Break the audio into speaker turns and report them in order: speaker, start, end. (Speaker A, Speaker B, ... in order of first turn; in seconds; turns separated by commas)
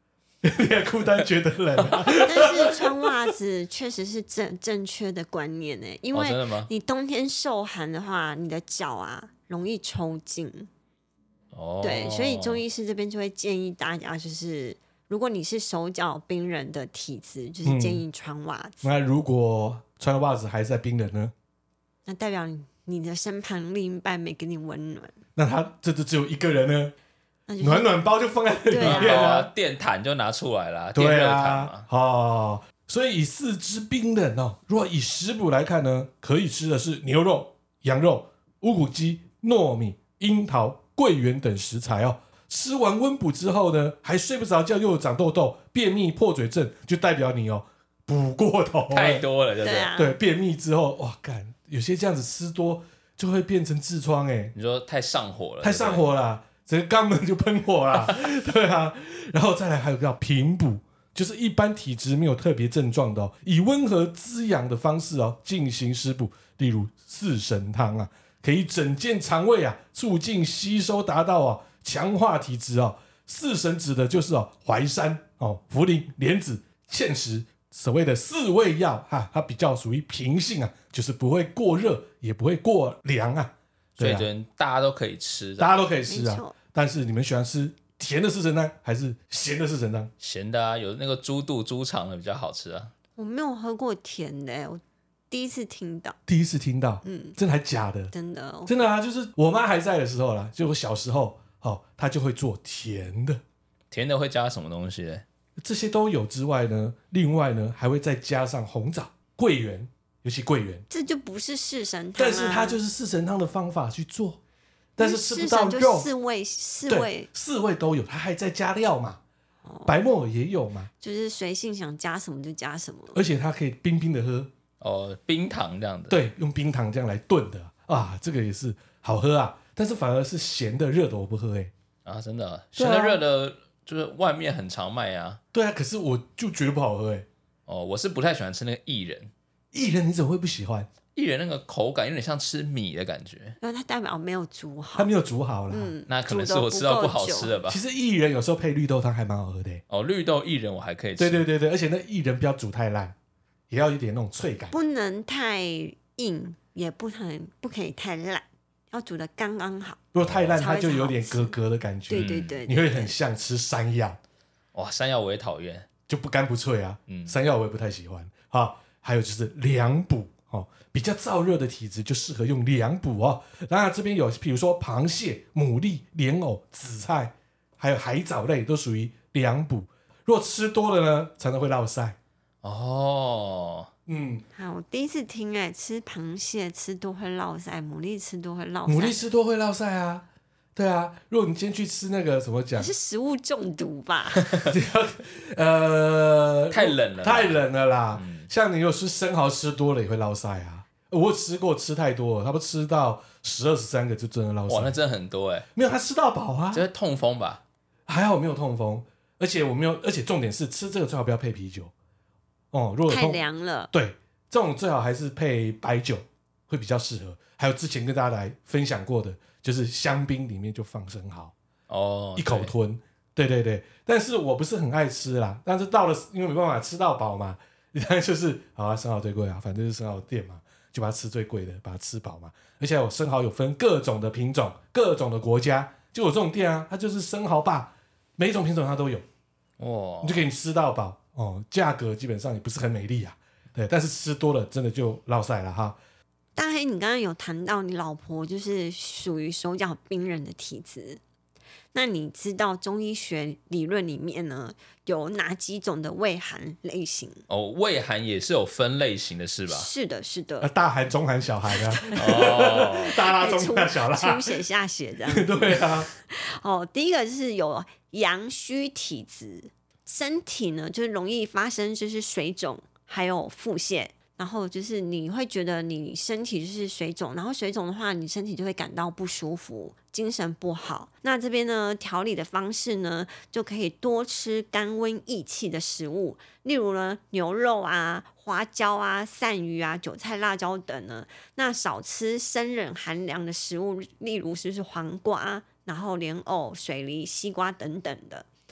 Speaker A: 0.4-2.8, Speaker B: 1.8-2.5, Speaker C: 2.2-10.7, Speaker B: 6.1-6.7, Speaker B: 11.5-12.6, Speaker C: 11.8-18.8, Speaker A: 17.6-18.0, Speaker A: 18.8-21.3, Speaker C: 22.1-25.1, Speaker A: 25.4-26.9, Speaker C: 27.5-27.9, Speaker A: 27.6-29.5, Speaker C: 28.7-29.3, Speaker B: 28.8-31.8, Speaker A: 30.9-49.2, Speaker B: 48.9-49.9, Speaker C: 49.6-50.2, Speaker A: 50.0-54.5, Speaker B: 54.5-56.1, Speaker A: 55.6-84.3, Speaker B: 84.0-85.8, Speaker A: 85.6-90.1, Speaker C: 86.1-86.5, Speaker B: 90.2-92.9, Speaker C: 93.2-96.2, Speaker A: 96.3-98.1, Speaker C: 97.0-97.3, Speaker C: 98.1-98.7, Speaker A: 98.7-103.4, Speaker B: 103.9-105.2, Speaker A: 105.6-110.8, Speaker C: 110.9-112.8, Speaker A: 112.2-114.4, Speaker A: 115.0-116.1, Speaker C: 115.0-117.3, Speaker A: 116.9-119.2, Speaker C: 119.7-120.0, Speaker A: 119.8-120.9, Speaker C: 121.0-123.2, Speaker A: 123.1-124.5, Speaker B: 124.8-126.2, Speaker A: 126.1-131.7, Speaker B: 132.0-135.4, Speaker A: 132.8-133.2, Speaker A: 135.5-137.3, Speaker B: 137.7-139.3, Speaker A: 139.7-140.9, Speaker B: 141.1-143.6, Speaker C: 143.6-145.1, Speaker A: 144.9-145.9, Speaker C: 145.7-147.5, Speaker B: 146.1-147.8, Speaker A: 147.7-149.8, Speaker B: 149.9-151.4, Speaker A: 151.2-153.1, Speaker A: 153.7-154.7, Speaker C: 154.7-160.0, Speaker A: 160.1-164.2, Speaker B: 160.2-160.6, Speaker C: 160.6-161.5, Speaker C: 162.1-163.1, Speaker B: 162.1-162.6, Speaker B: 164.7-165.9, Speaker A: 166.1-182.2, Speaker B: 167.1-167.3, Speaker B: 182.6-183.9, Speaker A: 184.1-184.4, Speaker C: 184.5-189.1, Speaker A: 188.8-192.9, Speaker C: 192.8-194.5, Speaker A: 194.6-205.0, Speaker B: 196.7-197.6, Speaker B: 198.1-198.5, Speaker B: 204.7-205.7, Speaker A: 205.8-206.9, Speaker B: 206.7-207.6, Speaker A: 208.1-211.9, Speaker A: 212.7-213.4, Speaker C: 213.1-213.9, Speaker A: 213.9-221.5, Speaker B: 221.9-222.7, Speaker A: 222.4-239.2, Speaker B: 239.8-240.4, Speaker A: 240.2-246.0, Speaker C: 246.6-251.2, Speaker C: 251.9-257.4, Speaker B: 257.5-259.9, Speaker C: 259.7-260.7, Speaker A: 260.6-264.6, Speaker C: 261.9-298.5, Speaker B: 262.1-263.2, Speaker A: 265.3-266.1